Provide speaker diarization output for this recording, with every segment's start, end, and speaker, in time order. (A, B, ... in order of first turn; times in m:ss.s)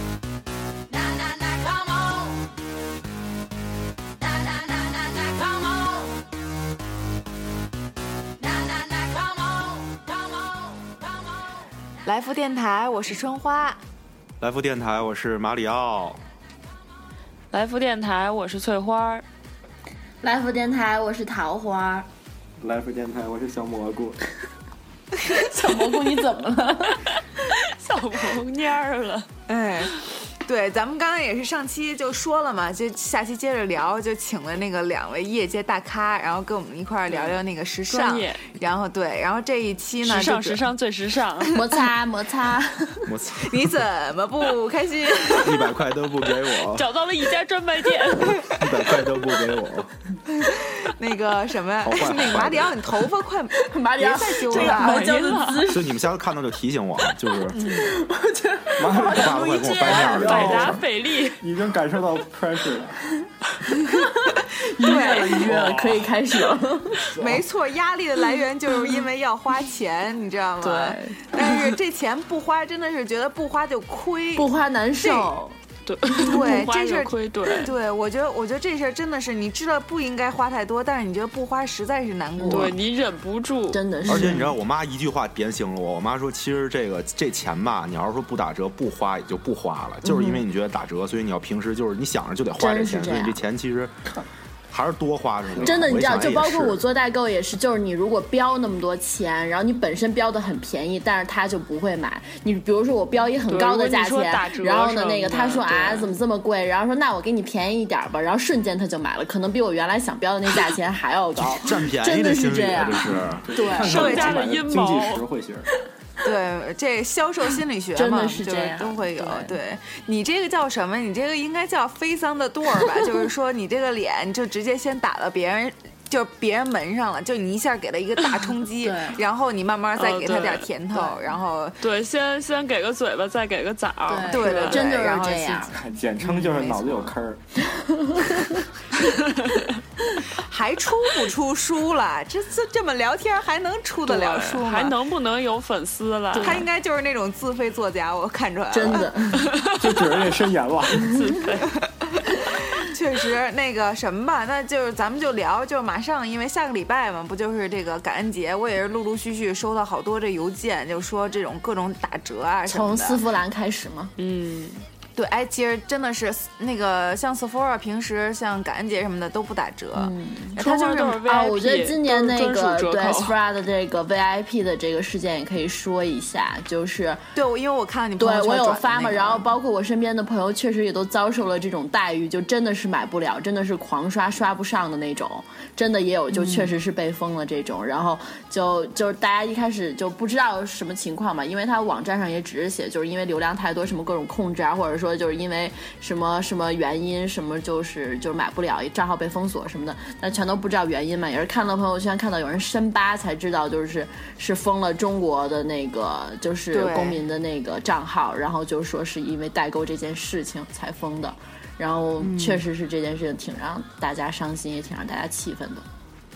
0:00.9-0:02.5 A
0:04.2-0:06.2 A
0:08.4-0:11.5 A
0:12.0-0:13.8 B
0:14.4-0:16.2 C
0:17.5-0:19.2 D
0:20.2-0:22.1 E
0:22.6-0:24.2 F
0:25.2-0:27.0 E
0:27.6-0:29.3 D
0:29.5-0:40.6 B
0:37.9-0:38.4 D
0:40.0-0:41.6 D
0:41.5-0:43.1 E
0:43.1-0:43.6 C
0:43.4-0:45.6 B
0:45.4-0:46.8 C
0:46.7-0:48.6 D
0:48.5-0:49.9 C
0:50.3-0:55.0 B
0:51.8-0:53.0 C
0:53.6-0:56.0 E
0:54.6-0:55.6 D
0:55.7-0:57.6 C
0:57.6-0:57.9 B
0:57.6-1:00.8 E
0:58.8-1:00.6 F
0:59.1-1:00.8 C
1:00.1-1:01.4 D
1:01.4-1:03.0 F
1:03.9-1:07.2 E
1:04.8-1:05.5 B
1:04.9-1:06.2 F
1:07.2-1:07.4 F
1:07.2-1:14.5 B
1:10.6-1:11.8 E
1:14.4-1:15.6 E
1:15.0-1:15.4 B
1:15.9-1:17.7 D
1:16.1-1:22.8 B
1:22.4-1:22.7 E
1:22.5-1:23.9 D
1:23.7-1:24.5 E
1:24.1-1:33.9 C
1:30.0-1:30.4 E
1:32.6-1:33.4 E
1:34.7-1:36.8 C
1:35.6-1:54.3 E
1:43.5-1:46.1 D
1:51.4-1:53.4 C
1:53.3-1:55.7 F
1:53.8-1:55.2 D
1:53.9-1:54.3 B
1:56.2-2:11.8 B
1:58.0-1:59.6 E
2:08.8-2:09.2 E
2:10.0-2:10.7 D
2:11.8-2:14.8 D
2:14.1-2:15.7 E
2:14.3-2:15.7 B
2:15.7-2:17.4 F
2:16.2-2:17.1 B
2:17.6-2:18.7 E
2:19.0-2:19.8 D
2:20.3-2:25.0 B
2:24.1-2:26.6 D
2:26.3-2:26.7 E
2:26.4-2:29.1 B
2:28.7-2:29.6 E
2:29.4-2:29.8 D
2:29.6-2:31.1 F
2:31.0-2:31.7 D
2:31.9-2:43.2 B
2:42.7-2:44.1 E
2:44.2-2:44.8 D
2:45.2-2:51.2 B
2:50.0-2:50.6 E
2:50.6-2:53.4 D
2:51.2-2:57.2 E
2:57.4-2:59.5 B
2:58.2-3:35.8 E
3:06.3-3:06.8 B
3:26.7-3:27.2 B
3:32.2-3:32.7 B